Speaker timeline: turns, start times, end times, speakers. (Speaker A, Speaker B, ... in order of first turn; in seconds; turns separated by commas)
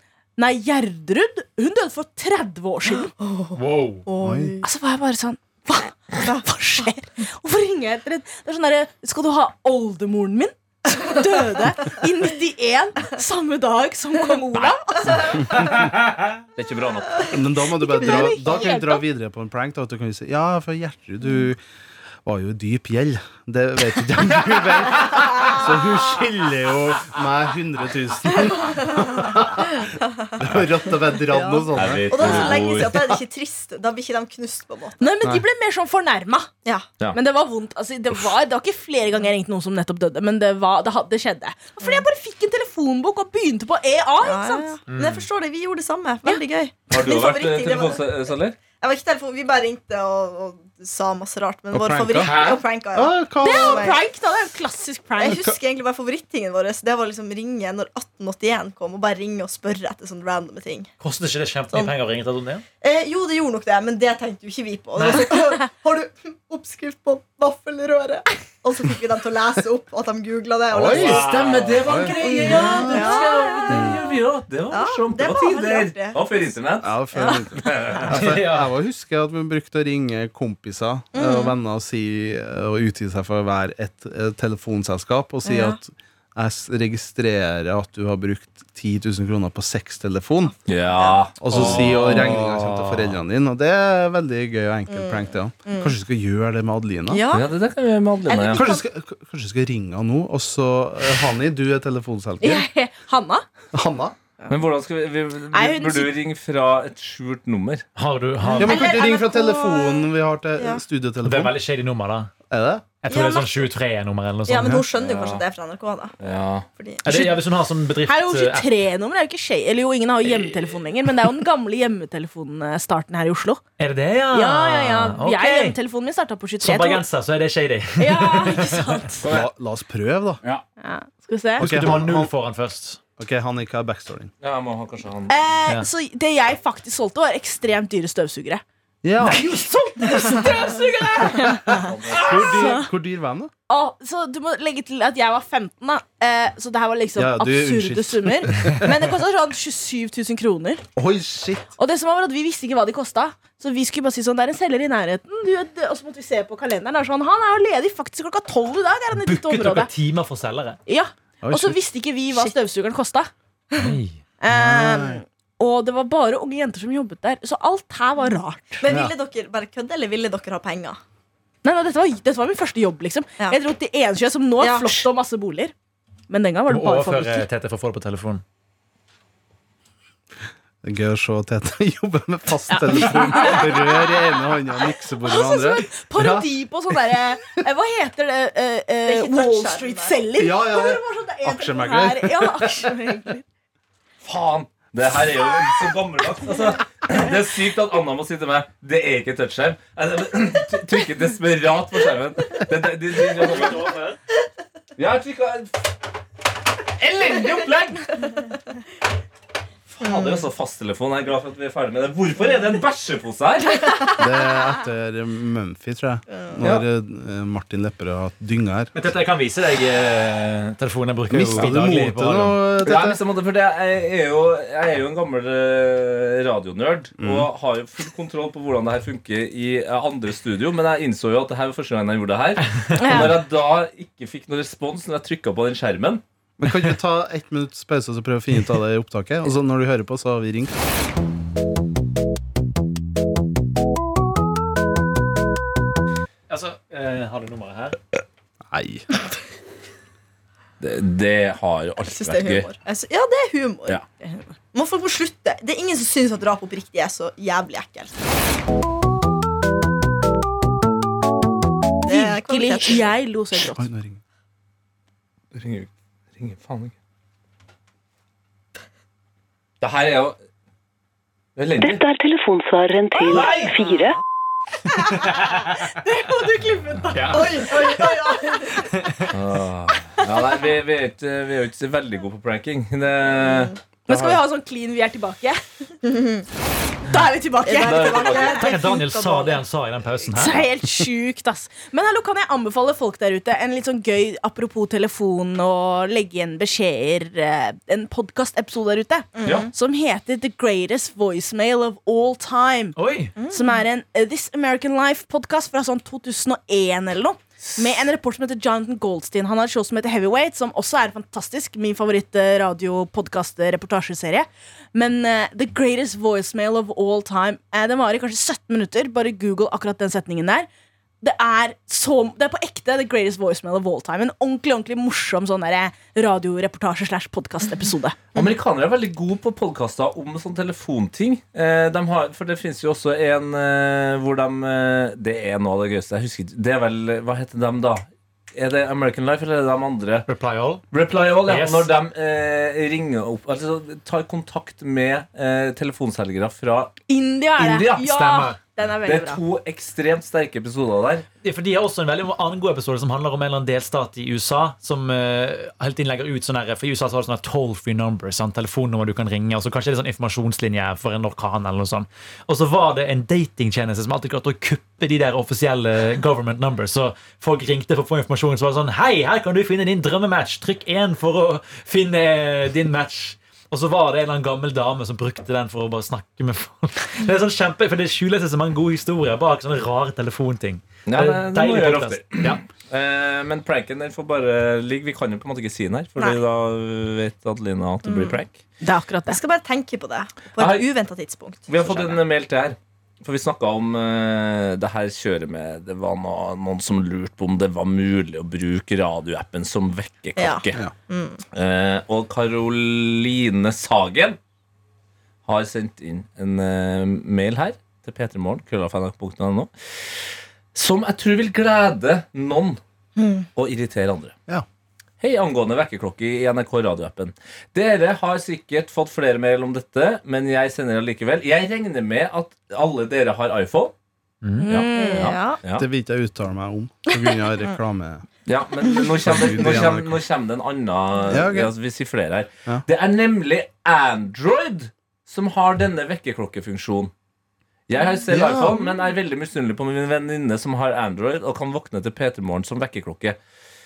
Speaker A: 0.4-3.1, Speaker B: 3.2-4.6, Speaker C: 3.5-4.0, Speaker D: 4.2-4.5, Speaker A: 4.6-15.3, Speaker B: 6.1-6.9, Speaker E: 14.5-15.3, Speaker B: 15.0-15.5, Speaker E: 16.6-17.3, Speaker D: 17.3-21.6, Speaker A: 17.8-19.0, Speaker B: 18.0-18.6, Speaker D: 22.2-29.9, Speaker B: 28.6-30.4, Speaker D: 30.4-32.8, Speaker B: 31.2-35.1, Speaker E: 31.7-33.1, Speaker A: 35.0-36.5, Speaker A: 37.1-44.7, Speaker B: 44.2-54.0, Speaker C: 44.9-45.2, Speaker E: 46.9-48.6, Speaker D: 51.7-52.4, Speaker E: 52.2-52.6, Speaker D: 52.9-53.9, Speaker A: 53.4-55.5, Speaker B: 55.2-60.9, Speaker C: 61.0-62.6, Speaker B: 62.8-71.4, Speaker C: 65.0-65.3, Speaker D: 70.7-73.0, Speaker E: 70.8-78.1, Speaker B: 72.1-74.1, Speaker A: 72.3-73.1, Speaker D: 73.7-74.0, Speaker B: 74.7-76.5, Speaker D: 76.8-90.5, Speaker B: 77.1-78.0, Speaker C: 78.1-78.7, Speaker B: 81.1-81.5, Speaker B: 85.4-85.8, Speaker E: 90.7-92.4, Speaker B: 90.8-91.2, Speaker D: 91.4-97.2, Speaker C: 91.5-93.2, Speaker B: 94.9-95.9, Speaker B: 97.1-97.5, Speaker E: 97.3-98.7, Speaker B: 98.2-98.8, Speaker D: 98.5-102.7, Speaker A: 102.4-103.4, Speaker D: 103.7-104.1, Speaker E: 104.5-107.8, Speaker A: 105.5-106.1, Speaker C: 108.0-108.9, Speaker B: 108.6-110.8, Speaker D: 108.6-111.6, Speaker C: 111.2-112.3, Speaker D: 112.5-112.8, Speaker C: 113.0-114.8, Speaker B: 113.1-113.7, Speaker B: 114.5-116.2, Speaker E: 114.9-115.4, Speaker E: 116.2-116.7, Speaker B: 116.8-117.0, Speaker C: 117.0-118.7, Speaker A: 118.0-123.6, Speaker C: 123.8-125.8, Speaker A: 124.3-127.0, Speaker C: 126.6-128.9, Speaker A: 128.0-129.2, Speaker E: 129.2-129.5, Speaker D: 129.2-130.4, Speaker A: 130.8-131.7, Speaker D: 131.6-132.3, Speaker C: 131.6-133.0, Speaker D: 133.2-134.3, Speaker E: 134.4-135.3, Speaker A: 135.3-138.6, Speaker D: 139.0-139.4, Speaker C: 139.2-141.6, Speaker A: 139.4-142.9, Speaker E: 141.8-142.4, Speaker D: 142.1-143.5, Speaker A: 143.7-150.8, Speaker D: 147.2-148.9, Speaker D: 150.9-151.7, Speaker A: 151.8-159.9, Speaker C: 159.2-160.8, Speaker A: 160.9-163.3, Speaker D: 161.4-161.8, Speaker C: 163.8-164.2, Speaker A: 164.4-168.8, Speaker D: 164.5-165.2, Speaker B: 168.8-171.0, Speaker D: 168.8-169.1, Speaker A: 171.6-175.7, Speaker B: 174.6-175.1, Speaker A: 176.3-177.4, Speaker C: 176.7-178.4, Speaker D: 180.8-186.5, Speaker A: 182.7-184.1, Speaker A: 185.2-193.4, Speaker B: 189.0-190.2, Speaker D: 190.4-192.9, Speaker E: 194.2-203.9, Speaker C: 203.4-204.2, Speaker E: 205.0-205.9, Speaker E: 207.0-208.2, Speaker E: 209.9-214.0, Speaker B: 210.0-210.4, Speaker B: 213.8-214.2, Speaker D: 214.2-218.9, Speaker C: 218.9-222.6, Speaker D: 221.3-223.2, Speaker E: 222.8-236.2, Speaker D: 227.2-227.5, Speaker A: 233.0-233.4, Speaker D: 236.6-240.7, Speaker C: 246.5-248.0, Speaker D: 248.7-249.0, Speaker E: 250.8-252.7, Speaker B: 252.0-254.0, Speaker A: 254.2-254.5, Speaker B: 254.7-258.2, Speaker B: 262.0-263.1, Speaker A: 262.1-263.9, Speaker D: 263.6-264.2, Speaker E: 265.5-266.9, Speaker E: 269.8-270.4, Speaker E: 271.6-272.0, Speaker F: 271.8-274.2, Speaker C: 273.3-273.7, Speaker C: 274.9-275.8, Speaker A: 275.7-278.5, Speaker C: 277.1-277.9, Speaker B: 277.3-278.8, Speaker C: 278.7-279.3, Speaker E: 279.3-284.2, Speaker B: 283.3-283.7, Speaker A: 284.1-285.6, Speaker B: 286.0-286.5, Speaker A: 287.1-288.5, Speaker B: 287.6-289.6, Speaker E: 287.7-288.7, Speaker C: 288.5-290.6, Speaker A: 290.3-302.9, Speaker B: 299.3-299.7, Speaker C: 302.9-303.3, Speaker B: 303.4-303.8, Speaker A: 303.5-320.7, Speaker A: 321.2-328.2, Speaker E: 328.3-340.3, Speaker C: 340.3-340.8, Speaker E: 340.9-346.9, Speaker C: 341.4-341.9, Speaker A: 347.1-349.4, Speaker E: 347.6-348.2, Speaker C: 348.1-348.6, Speaker E: 349.0-351.2, Speaker C: 351.4-382.6, Speaker E: 381.1-388.6, Speaker B: 388.0-388.4, Speaker A: 388.8-389.4, Speaker B: 389.3-392.2, Speaker E: 390.6-390.9, Speaker E: 391.7-400.8, Speaker B: 400.4-401.4, Speaker E: 401.5-404.4, Speaker E: 405.4-409.7, Speaker E: 410.7-412.8, Speaker B: 413.2-413.4, Speaker E: 413.6-414.3, Speaker E: 415.2-423.9, Speaker C: 424.4-424.7, Speaker A: 424.6-425.5, Speaker E: 424.7-425.9, Speaker B: 424.9-425.6, Speaker D: 425.7-428.2, Speaker E: 428.4-437.1, Speaker D: 429.2-430.2, Speaker D: 431.3-431.7, Speaker E: 437.9-443.4, Speaker D: 438.3-438.9